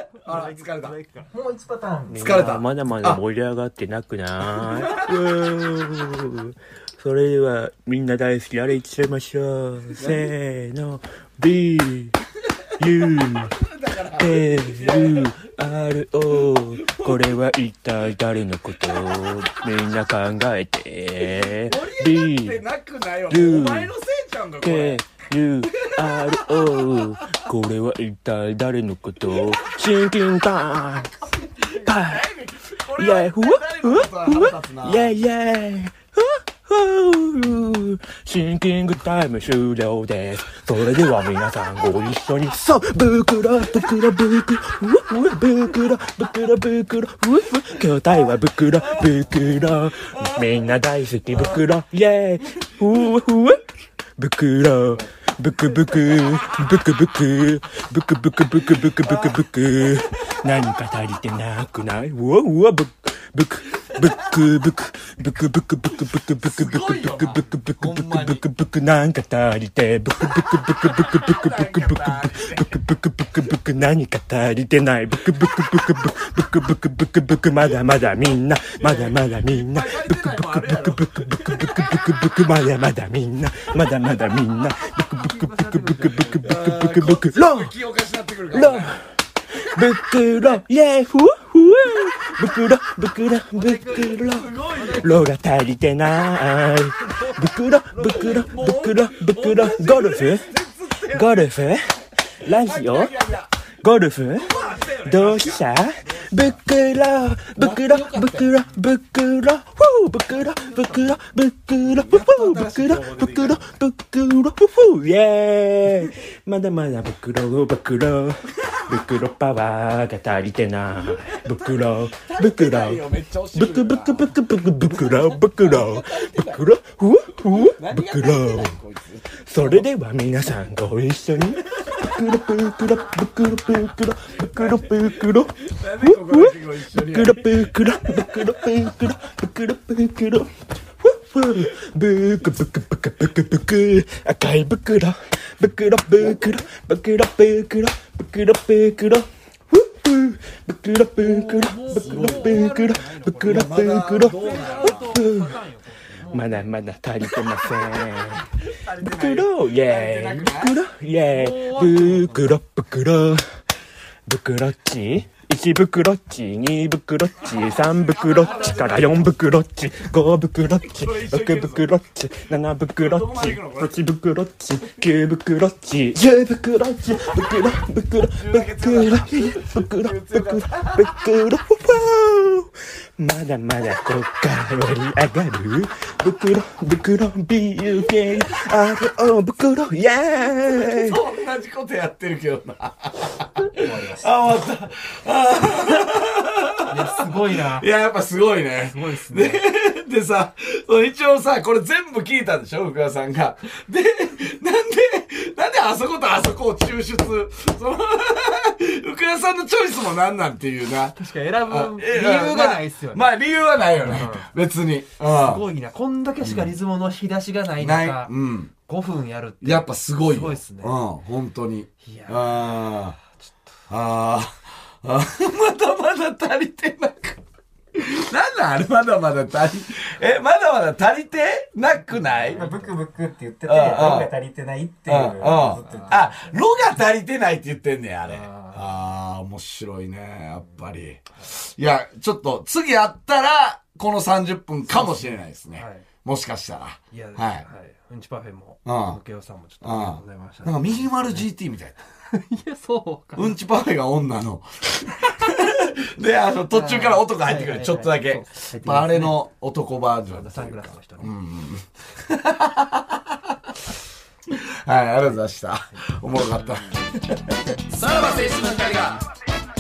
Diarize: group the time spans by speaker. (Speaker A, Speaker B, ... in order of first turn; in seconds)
Speaker A: 0.2-1.0, 2.2-3.2, 4.7-5.1, 10.0-10.3, 12.8-15.3, 16.8-17.4, 18.9-19.3, 21.6-25.0, 25.7-27.0, 29.3-29.7, 31.4-35.1, 50.2-50.5, 51.3-51.6, 59.0-60.1, 63.9-64.4, 66.4-68.4, 70.9-72.8, 78.8-81.9, 86.4-89.0, 93.5-95.2, 97.9-101.4, 102.5-103.5, 104.3-105.7, 107.6-108.6, 112.0-113.8, 121.3-124.3, 124.8-126.6, 127.5-129.8, 131.8-132.4, 134.5-138.5, 151.9-152.7, 153.4-155.2, 158.7-160.8, 167.7-169.3, 170.9-171.9, 173.0-174.0, 174.8-175.1, 178.2-181.2, 190.6-215.6, 216.4-216.7, 217.8-218.7, 219.6-223.2, 223.9-227.4, 227.9-232.7, 233.6-234.3, 235.1-247.7, 248.8-249.2, 249.8-252.0, 253.3-263.8, 264.5-269.2
Speaker B: 0.2-1.3, 85.2-86.5, 94.8-95.2, 151.2-156.7, 161.3-162.5, 168.4-168.9, 196.9-197.9, 198.8-199.6, 211.1-213.3, 214.0-214.5, 215.2-221.0, 222.0-223.8, 232.1-233.0, 235.5-236.3, 238.2-238.9, 244.9-246.1, 247.1-251.4, 252.3-253.5, 256.7-259.4, 260.3-261.3
Speaker C: 1.3-2.5, 193.7-194.6, 232.5-236.3
Speaker D: 2.1-12.1, 12.8-13.6, 14.2-22.6, 23.3-23.9, 24.6-31.1, 31.6-32.2, 33.0-53.6, 54.2-87.7, 88.5-89.0, 89.6-100.5, 101.1-103.2, 103.8-104.5, 105.0-123.0, 123.5-128.7, 129.5-155.6, 156.3-158.5, 159.0-163.4, 164.3-191.2